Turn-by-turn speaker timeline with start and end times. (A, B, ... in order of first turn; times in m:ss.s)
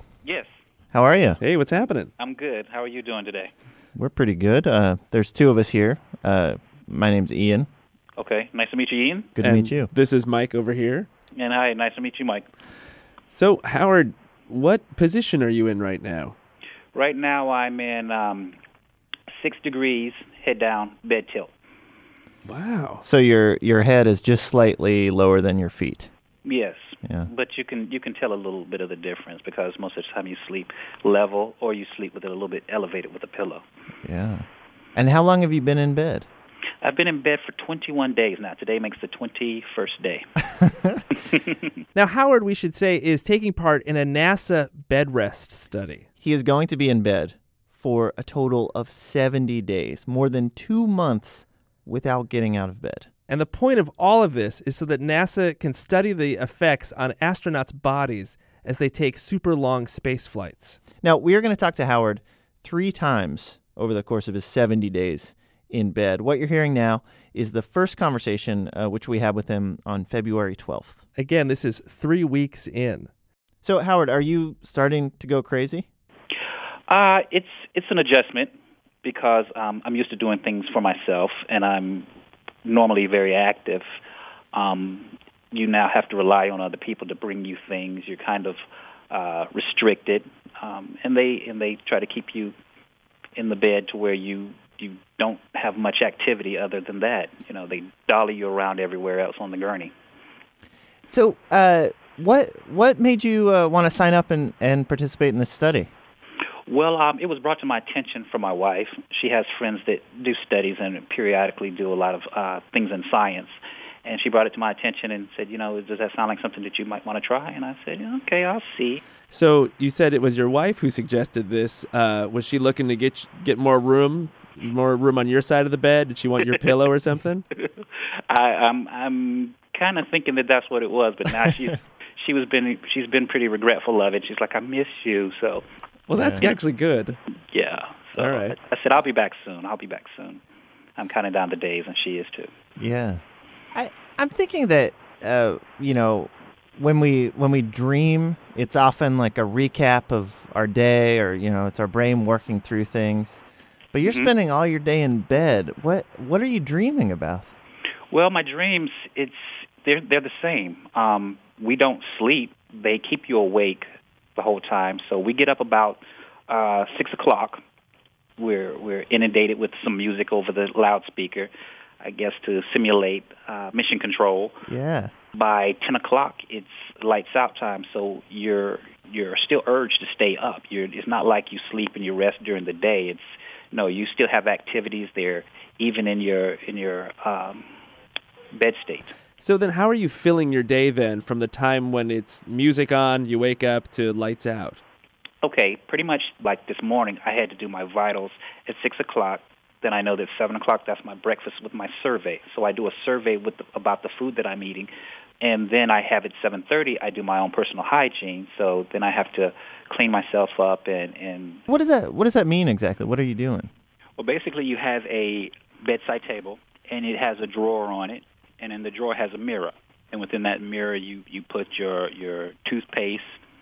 0:00.2-0:00.5 A
0:00.9-0:01.4 B
0:01.4-0:02.1 C
0:02.2-0:03.5 A
0:04.0-0:07.7 B
0:08.2-0:09.3 A
0:09.4-0:09.9 B
0:09.4-0:11.1 C
0:11.3-0:12.4 A
0:13.3-0:16.3 C
0:16.9-0:18.6 A
0:19.3-0:21.5 A
0:22.4-0:23.0 C
0:23.0-0:26.1 B
0:26.4-0:33.6 A
0:27.0-0:27.3 B
0:34.0-0:36.3 B
0:36.8-0:40.4 A
0:41.1-0:41.7 A
0:41.9-0:46.0 C
0:46.2-0:53.1 B
0:53.3-1:00.8 C
1:01.0-1:11.0 B
1:11.2-1:13.1 C
1:13.6-1:15.8 B
1:16.9-1:18.5 A
1:19.0-1:22.1 A
1:22.6-1:23.8 A
1:24.5-1:32.5 A
1:33.4-1:39.9 A
1:41.1-1:45.9 B
1:46.7-1:59.0 A
1:59.3-2:07.4 C
2:07.6-2:15.6 A
2:16.1-2:17.2 C
2:16.1-2:16.5 B
2:17.5-2:20.4 A
2:18.2-2:18.6 C
2:21.0-2:22.5 A
2:22.8-2:23.2 B
2:23.7-2:33.4 B
2:33.9-2:37.5 B
2:34.0-2:34.3 A
2:38.1-2:43.8 A
2:44.4-2:47.6 A
2:48.4-2:54.6 A
2:54.7-2:55.1 B
2:55.3-3:07.6 A
3:08.5-3:09.1 A
3:09.4-3:14.8 C
3:15.4-3:31.6 A
3:31.7-3:33.7 B
3:34.2-3:43.4 A